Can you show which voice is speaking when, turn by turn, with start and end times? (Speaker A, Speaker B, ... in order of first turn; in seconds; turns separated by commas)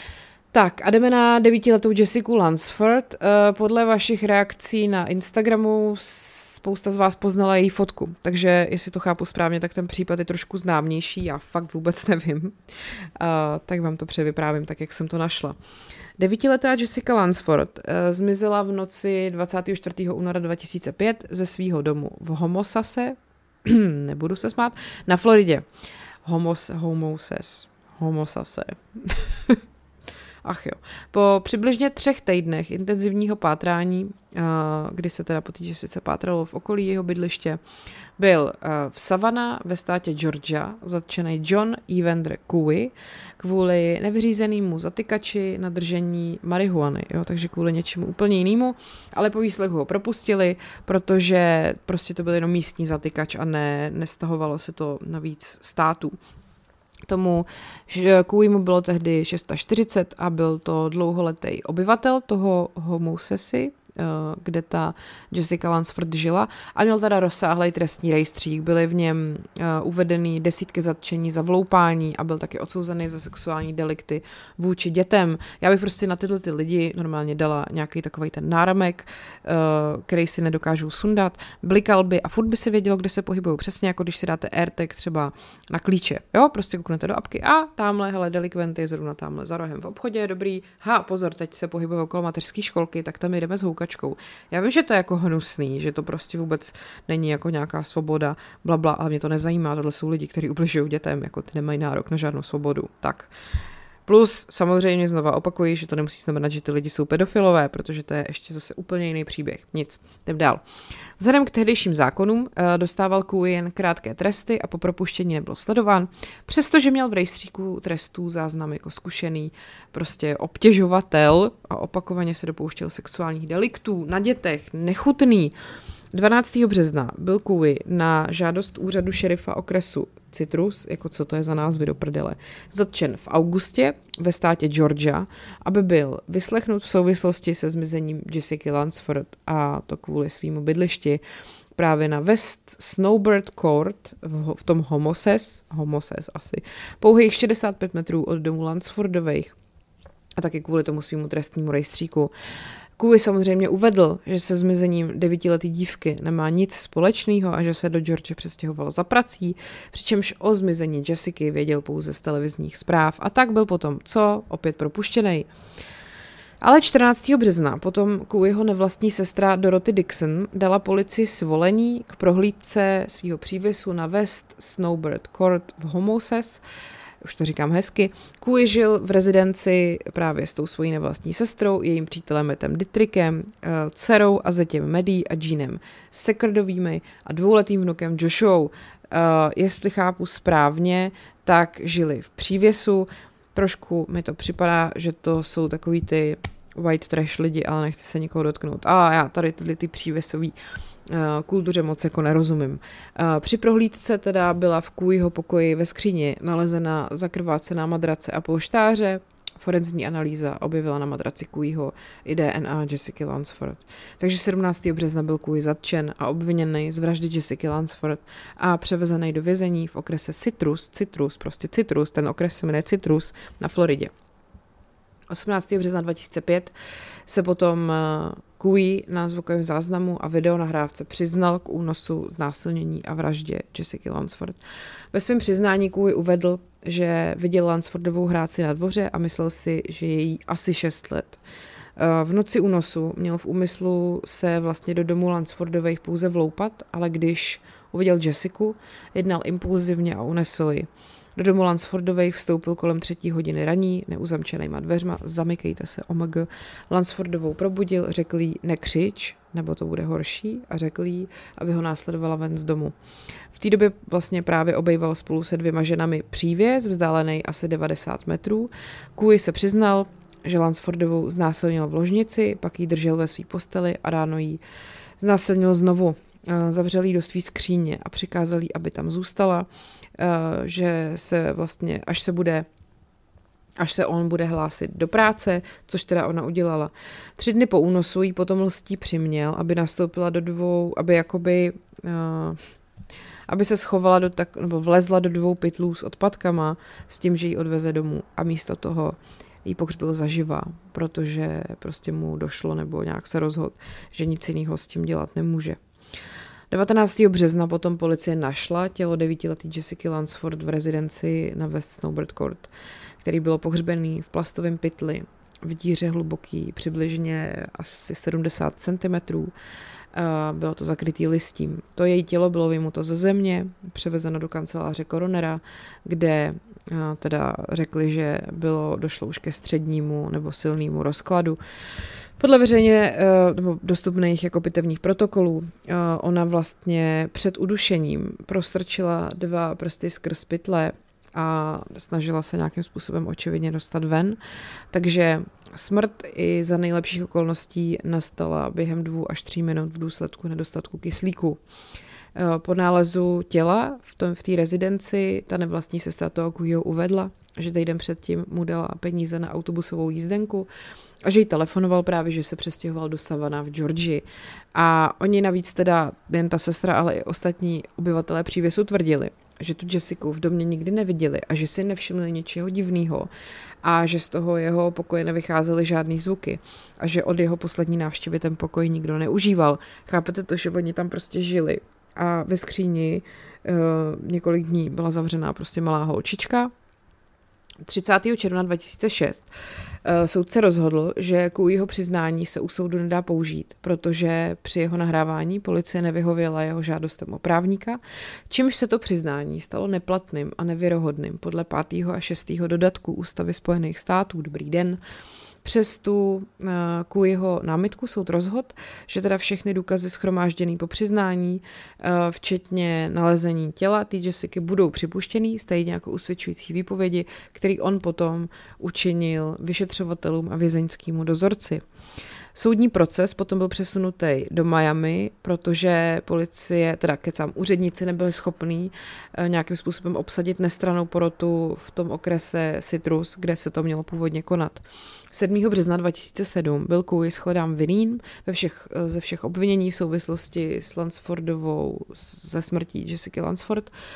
Speaker A: 0.5-12.6, Speaker A: 13.2-15.6, Speaker A: 16.2-25.6, Speaker A: 26.2-29.6, Speaker A: 30.4-37.6, Speaker A: 38.2-56.2, Speaker A: 57.1-103.3, Speaker A: 104.1-110.6, Speaker A: 111.2-125.5, Speaker A: 126.1-141.2, Speaker A: 141.8-149.6, Speaker A: 150.4-152.3, Speaker A: 153.0-165.5, Speaker A: 166.6-176.6, Speaker A: 177.2-200.6, Speaker A: 201.1-224.1, Speaker A: 225.3-226.7, Speaker A: 227.3-234.6, Speaker A: 235.1-241.4, Speaker A: 242.0-262.9, Speaker A: 263.6-274.6, Speaker A: 275.2-279.7, Speaker A: 280.2-282.7, Speaker A: 283.8-292.6, Speaker A: 293.5-305.8, Speaker A: 306.7-312.7, Speaker A: 313.2-319.5, Speaker A: 320.1-331.6, Speaker A: 332.4-344.4, Speaker A: 344.9-351.6, Speaker A: 352.4-360.7, Speaker A: 361.2-373.3, Speaker A: 373.8-386.7, Speaker A: 387.9-389.5, Speaker A: 390.1-405.0, Speaker A: 405.6-421.8, Speaker A: 422.6-443.9